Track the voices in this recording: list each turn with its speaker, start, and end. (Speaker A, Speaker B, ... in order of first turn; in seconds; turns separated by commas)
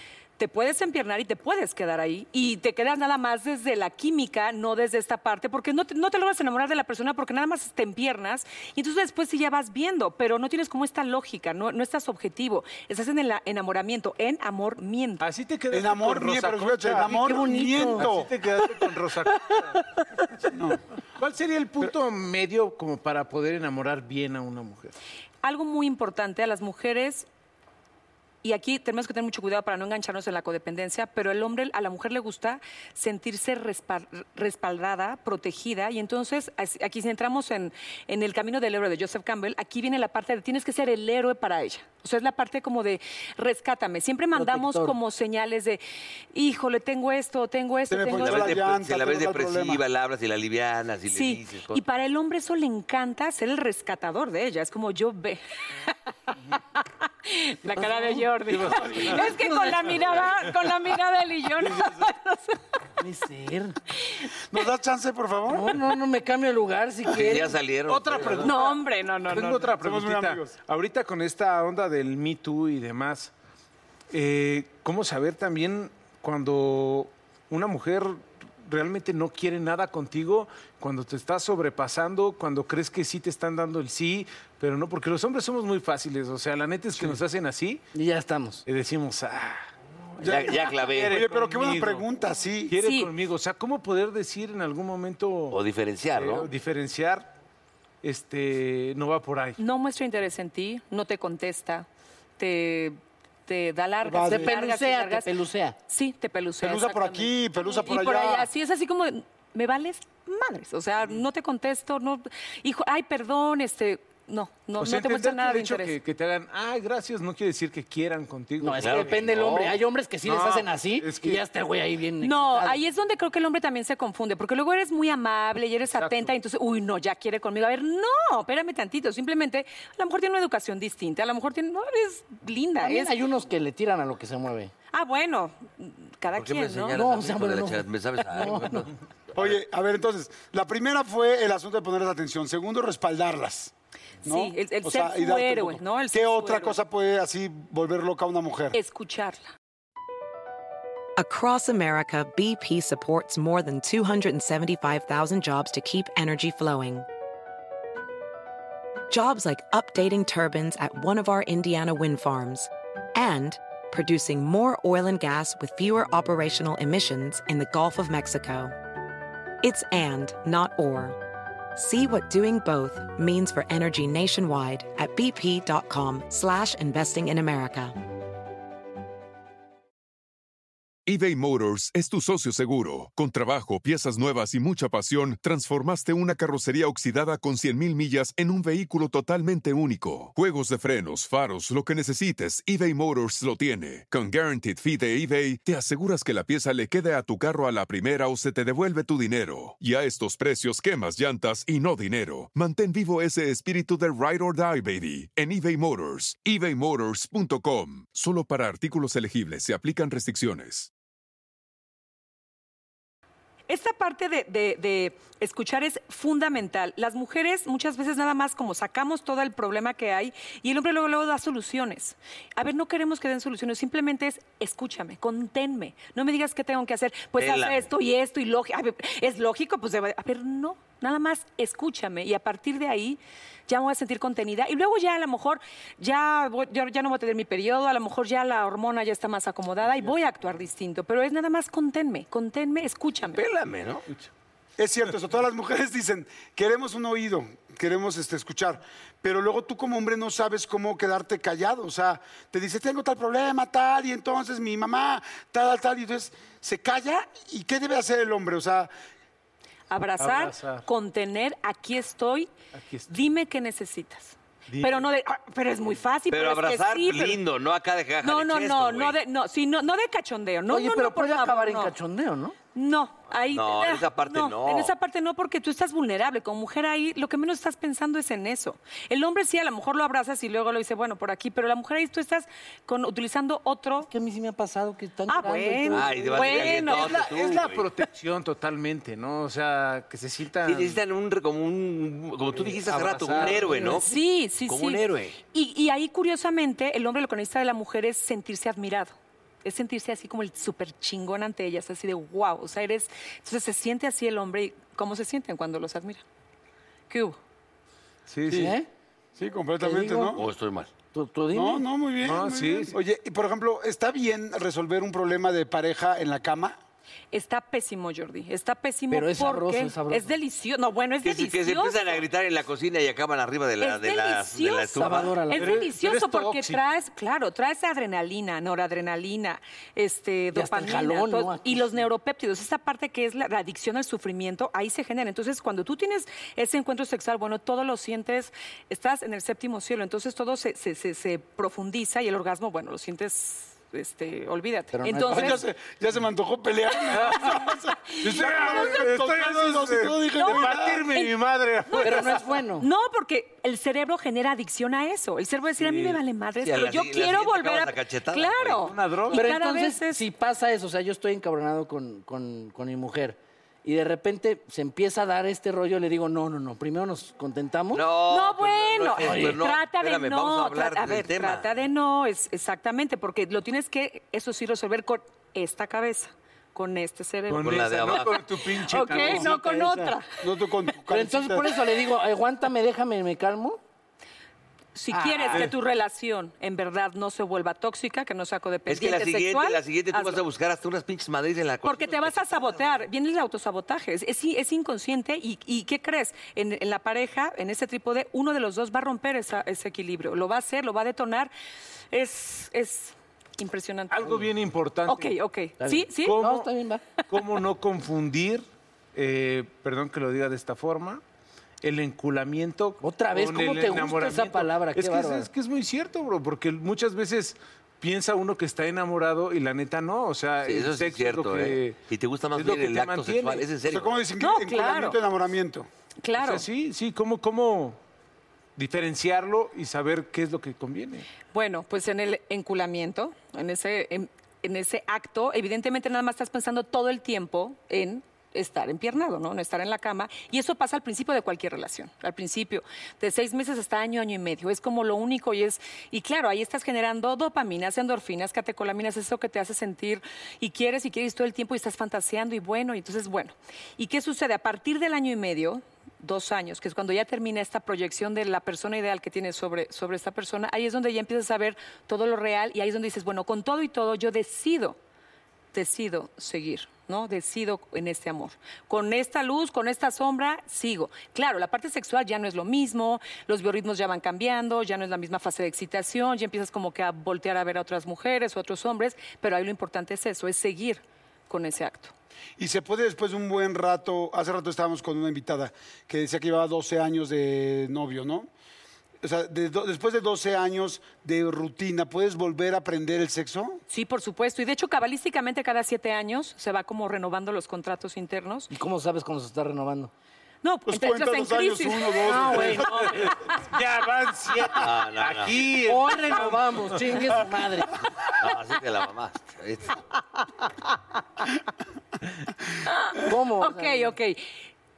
Speaker A: 0.4-15.2, Speaker B: 15.2-19.9, Speaker C: 15.7-18.3, Speaker D: 17.0-18.1, Speaker C: 20.5-20.8, Speaker B: 21.2-24.9, Speaker A: 25.4-27.3, Speaker A: 28.4-45.8, Speaker D: 44.3-45.0, Speaker A: 46.3-48.5, Speaker C: 47.9-49.8, Speaker E: 48.1-51.8, Speaker A: 51.1-55.9, Speaker A: 56.8-62.6, Speaker B: 58.5-60.5, Speaker D: 63.0-63.8, Speaker C: 64.5-65.8, Speaker D: 65.5-67.6, Speaker E: 67.1-68.6, Speaker B: 67.9-73.3, Speaker A: 68.4-69.7, Speaker C: 69.7-70.6, Speaker B: 74.1-87.8, Speaker D: 87.9-88.6, Speaker B: 88.7-89.6, Speaker C: 90.2-92.8, Speaker E: 90.2-91.2, Speaker B: 90.4-92.1, Speaker B: 92.7-95.6, Speaker A: 92.8-93.1, Speaker E: 95.5-96.5, Speaker B: 96.2-97.3, Speaker B: 98.0-99.6, Speaker A: 99.6-101.8, Speaker A: 102.4-105.3, Speaker C: 104.0-104.5, Speaker D: 104.2-105.8, Speaker A: 105.9-116.0, Speaker C: 106.6-108.5, Speaker B: 114.8-119.3, Speaker D: 118.6-122.8, Speaker E: 118.8-119.8, Speaker B: 120.2-121.4, Speaker A: 122.2-133.1, Speaker B: 125.9-126.3, Speaker D: 132.8-134.7, Speaker A: 134.9-137.0, Speaker E: 136.3-139.6, Speaker D: 136.9-138.9, Speaker C: 139.3-143.7, Speaker A: 144.2-146.8, Speaker C: 144.2-148.8, Speaker A: 148.7-149.5, Speaker F: 151.2-157.1, Speaker F: 159.1-168.7, Speaker F: 169.6-171.2, Speaker F: 171.7-177.9, Speaker G: 181.1-210.9, Speaker A: 213.7-243.4, Speaker E: 227.4-227.9, Speaker E: 243.3-244.1, Speaker C: 244.8-258.9, Speaker A: 259.9-262.5, Speaker B: 260.2-260.9, Speaker B: 262.7-263.1, Speaker A: 263.1-267.4, Speaker B: 264.7-265.1, Speaker E: 266.3-269.2, Speaker A: 268.2-271.9, Speaker D: 270.7-272.6, Speaker A: 272.7-284.1, Speaker E: 273.5-274.9, Speaker D: 284.1-286.8, Speaker A: 285.3-287.2, Speaker E: 285.9-287.9, Speaker B: 286.4-291.0, Speaker E: 290.6-294.1, Speaker B: 292.5-294.0, Speaker D: 293.6-294.0, Speaker A: 293.9-306.2, Speaker E: 294.7-295.4, Speaker A: 307.1-307.4, Speaker B: 308.3-308.7, Speaker D: 308.5-308.9, Speaker C: 309.4-310.4, Speaker D: 309.8-310.4, Speaker E: 310.3-310.9, Speaker D: 311.1-311.8, Speaker C: 311.5-316.8, Speaker B: 312.2-312.9, Speaker A: 317.3-322.2, Speaker D: 319.1-320.3, Speaker E: 321.2-325.5, Speaker A: 323.8-345.6, Speaker D: 324.9-325.9, Speaker B: 325.6-326.8, Speaker D: 330.5-332.0, Speaker D: 344.9-345.6, Speaker C: 345.3-351.1, Speaker B: 347.1-347.6, Speaker A: 348.1-349.0, Speaker B: 348.2-352.6, Speaker A: 350.3-351.3, Speaker A: 351.9-360.2, Speaker D: 352.0-352.9, Speaker B: 355.8-356.2, Speaker E: 356.6-358.9, Speaker B: 358.8-359.5, Speaker D: 359.3-368.1, Speaker E: 367.9-371.7, Speaker A: 368.2-380.4, Speaker D: 369.2-369.6, Speaker B: 377.5-380.1, Speaker E: 377.6-378.5, Speaker C: 380.4-381.7, Speaker D: 381.1-383.8, Speaker A: 384.9-390.4, Speaker E: 388.9-392.8, Speaker A: 391.8-401.5, Speaker A: 402.1-404.3, Speaker B: 404.1-405.3, Speaker A: 405.1-406.4, Speaker D: 405.8-407.0, Speaker B: 406.2-406.7, Speaker B: 407.3-411.2, Speaker B: 411.8-422.0, Speaker D: 413.0-415.5, Speaker E: 420.6-424.2, Speaker B: 422.5-423.6, Speaker C: 423.9-425.9, Speaker A: 424.4-425.2, Speaker A: 426.2-426.6, Speaker B: 426.4-428.0, Speaker B: 428.8-431.3, Speaker A: 431.4-465.0, Speaker A: 465.7-482.1, Speaker C: 482.6-488.5, Speaker C: 489.2-493.8, Speaker A: 493.9-498.7, Speaker D: 498.7-500.1, Speaker A: 500.6-502.3, Speaker C: 500.9-503.3, Speaker D: 502.2-503.3, Speaker B: 502.8-507.4, Speaker E: 504.8-505.8, Speaker D: 505.8-507.9, Speaker E: 508.3-510.0, Speaker A: 512.9-514.6, Speaker D: 513.2-514.1